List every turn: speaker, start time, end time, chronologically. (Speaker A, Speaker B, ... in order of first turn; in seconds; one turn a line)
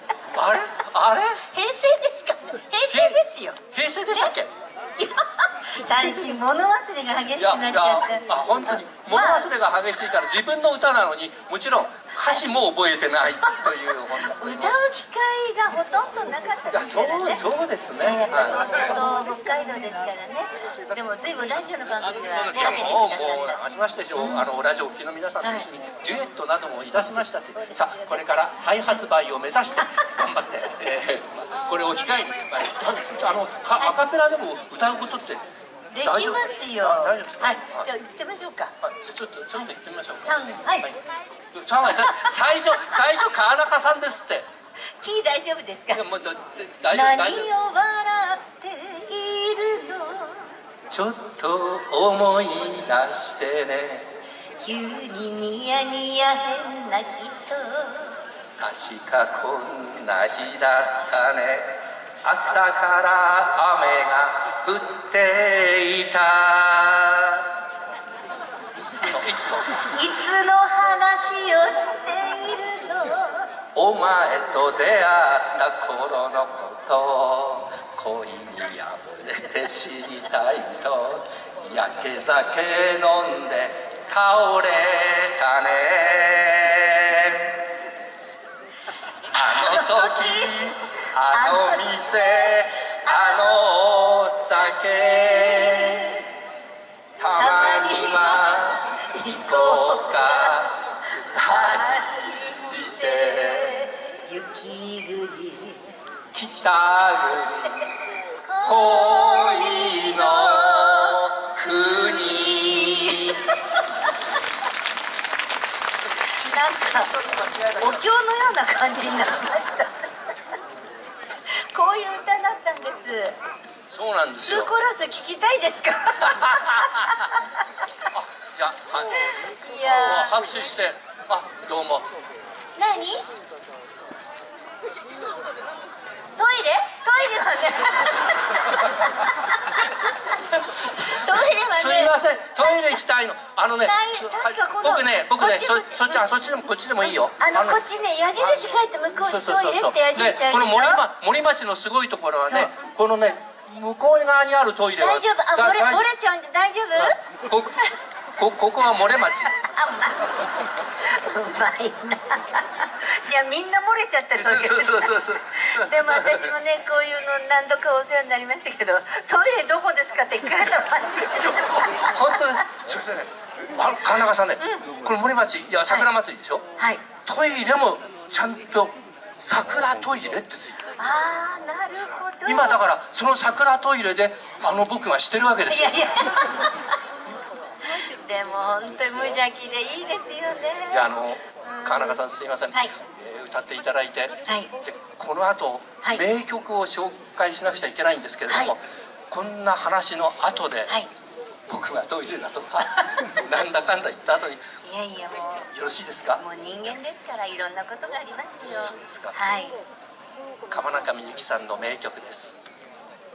Speaker A: 0.3-1.4
Speaker B: 1.4-4.3
Speaker A: 2.9-3.2
Speaker A: 3.7-4.5
Speaker B: 5.0-9.5
Speaker A: 7.4-14.8
Speaker B: 13.4-23.6
Speaker A: 16.7-18.9
Speaker A: 22.0-35.4
Speaker B: 24.2-24.5
Speaker B: 25.4-25.7
Speaker B: 27.0-28.2
Speaker B: 29.8-30.2
Speaker B: 35.9-38.7
Speaker A: 36.0-37.9
Speaker A: 38.8-41.0
Speaker B: 40.2-40.9
Speaker A: 41.5-44.5
Speaker B: 41.9-43.0
Speaker B: 45.0-46.0
Speaker A: 45.9-47.5
Speaker B: 46.9-50.5
Speaker A: 50.9-54.1
Speaker B: 54.6-58.2
Speaker A: 58.6-67.5
Speaker A: 68.8-69.7
Speaker B: 68.9-69.2
Speaker B: 69.9-73.5
Speaker A: 73.7-87.6
Speaker A: 89.3-96.1
Speaker B: 89.5-90.7
Speaker B: 91.3-93.6
Speaker B: 95.0-96.3
Speaker A: 97.2-101.9
Speaker B: 97.4-100.5
Speaker B: 101.4-105.8
Speaker A: 102.7-103.8
Speaker A: 106.3-108.0
Speaker B: 108.4-114.1
Speaker A: 108.6-113.4
Speaker B: 116.3-117.1
Speaker A: 116.9-117.9
Speaker B: 117.7-120.0
Speaker B: 121.5-123.4
Speaker A: 123.9-124.7
Speaker B: 124.4-127.6
Speaker A: 126.2-127.3
Speaker A: 128.1-132.1
Speaker B: 129.2-130.4
Speaker B: 132.8-133.3
Speaker B: 136.4-140.3
Speaker A: 140.5-141.2
Speaker B: 140.9-143.0
Speaker A: 141.7-147.8
Speaker B: 143.8-146.2
Speaker B: 147.0-151.0
Speaker A: 148.4-156.1
Speaker B: 152.5-152.8
Speaker B: 155.0-157.2
Speaker A: 157.5-157.8
Speaker A: 158.4-159.6
Speaker B: 159.5-160.3
Speaker B: 161.0-172.6
Speaker A: 164.4-166.6
Speaker A: 171.3-176.7
Speaker B: 174.6-174.9
Speaker B: 176.8-177.0
Speaker A: 177.3-180.9
Speaker B: 181.0-182.8
Speaker A: 182.4-186.4
Speaker B: 185.7-186.9
Speaker B: 187.8-192.9
Speaker A: 190.9-200.9
Speaker B: 198.5-198.8
Speaker A: 201.7-204.7
Speaker B: 202.9-203.3
Speaker B: 204.8-205.7
Speaker A: 205.7-206.4
Speaker B: 206.4-209.8
Speaker A: 208.6-209.4
Speaker A: 210.7-212.6